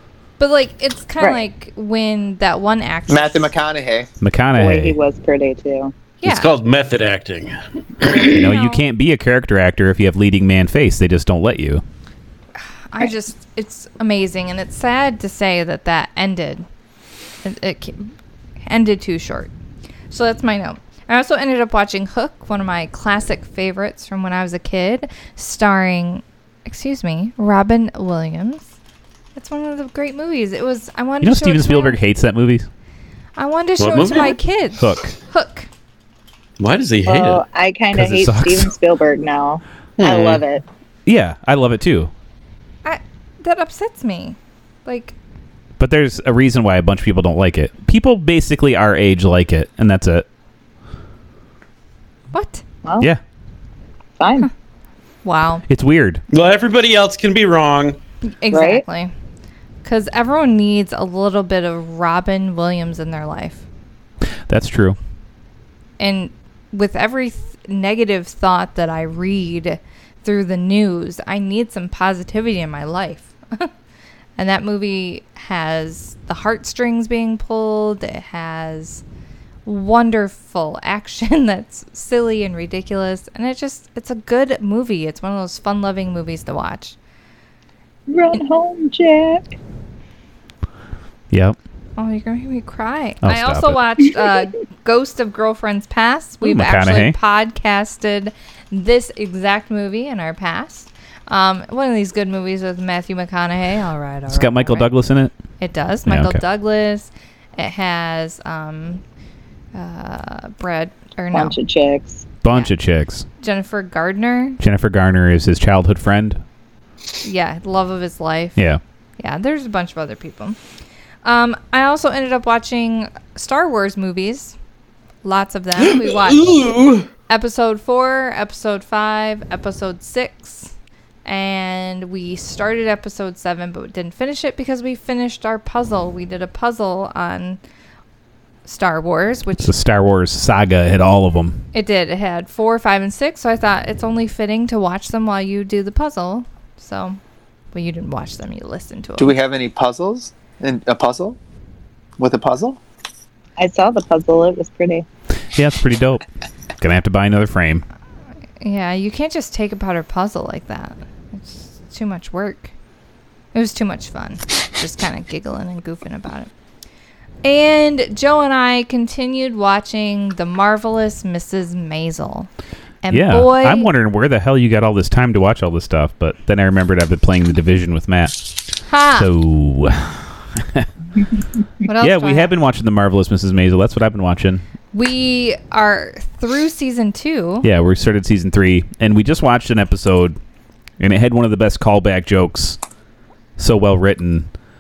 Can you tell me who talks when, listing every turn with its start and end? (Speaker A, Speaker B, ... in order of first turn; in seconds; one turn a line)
Speaker A: 0.4-3.5
Speaker B: 3.1-4.1
Speaker C: 4.2-5.0
Speaker D: 4.5-5.9
Speaker A: 6.2-6.5
Speaker E: 6.2-8.3
Speaker C: 8.2-11.8
Speaker A: 8.2-8.8
Speaker A: 12.9-16.6
Speaker A: 17.4-18.1
Speaker A: 18.7-19.5
Speaker A: 20.1-28.7
Speaker A: 29.4-32.0
Speaker C: 31.2-32.7
Speaker A: 33.4-35.7
Speaker E: 33.8-34.4
Speaker C: 34.8-35.1
Speaker E: 36.6-37.4
Speaker D: 37.1-40.6
Speaker C: 37.9-38.7
Speaker E: 40.0-40.4
Speaker C: 41.1-42.1
Speaker A: 42.9-45.1
Speaker C: 45.8-50.3
Speaker A: 52.3-52.6
Speaker D: 52.8-53.1
Speaker D: 54.2-54.5
Speaker A: 55.2-55.6
Speaker C: 55.7-56.2
Speaker E: 56.3-58.0
Speaker A: 58.3-59.1
Speaker D: 58.5-58.8
Speaker A: 59.8-63.6
Speaker C: 64.5-65.0
Speaker A: 66.0-73.7
Speaker A: 74.4-79.0
Speaker A: 79.7-87.0
Speaker D: 88.1-89.5
Speaker C: 91.3-91.6
Speaker A: 92.0-104.9
Speaker C: 93.2-93.8
Speaker C: 96.4-97.2
Speaker C: 104.3-105.3
Speaker A: 105.6-109.0
Speaker C: 106.1-106.4
Speaker A: 109.7-111.6
Speaker D: 111.3-112.2
Speaker C: 112.4-113.3
Speaker A: 113.4-114.6
Speaker C: 114.6-116.4
Speaker A: 117.2-118.6
Speaker A: 119.2-120.6
Speaker A: 121.2-124.5
Speaker A: 125.2-126.6
Speaker E: 125.8-127.1
Speaker A: 127.3-130.7
Speaker A: 131.2-137.6
Speaker A: 138.7-139.7
Speaker C: 139.6-141.6
Speaker A: 141.7-147.2
Speaker A: 147.7-149.4
Speaker B: 149.2-151.4
Speaker B: 152.2-152.8
Speaker D: 153.6-155.1
Speaker C: 155.6-156.3
Speaker C: 156.8-157.8
Speaker A: 158.6-162.7
Speaker A: 163.5-166.5
Speaker A: 167.4-172.5
Speaker A: 173.0-173.9
Speaker C: 173.1-178.5
Speaker A: 178.9-179.3
Speaker C: 179.2-180.9
Speaker A: 181.8-182.5
Speaker C: 182.0-184.6
Speaker A: 184.9-187.7
Speaker C: 187.6-190.4
Speaker C: 191.0-192.8
Speaker C: 193.6-194.5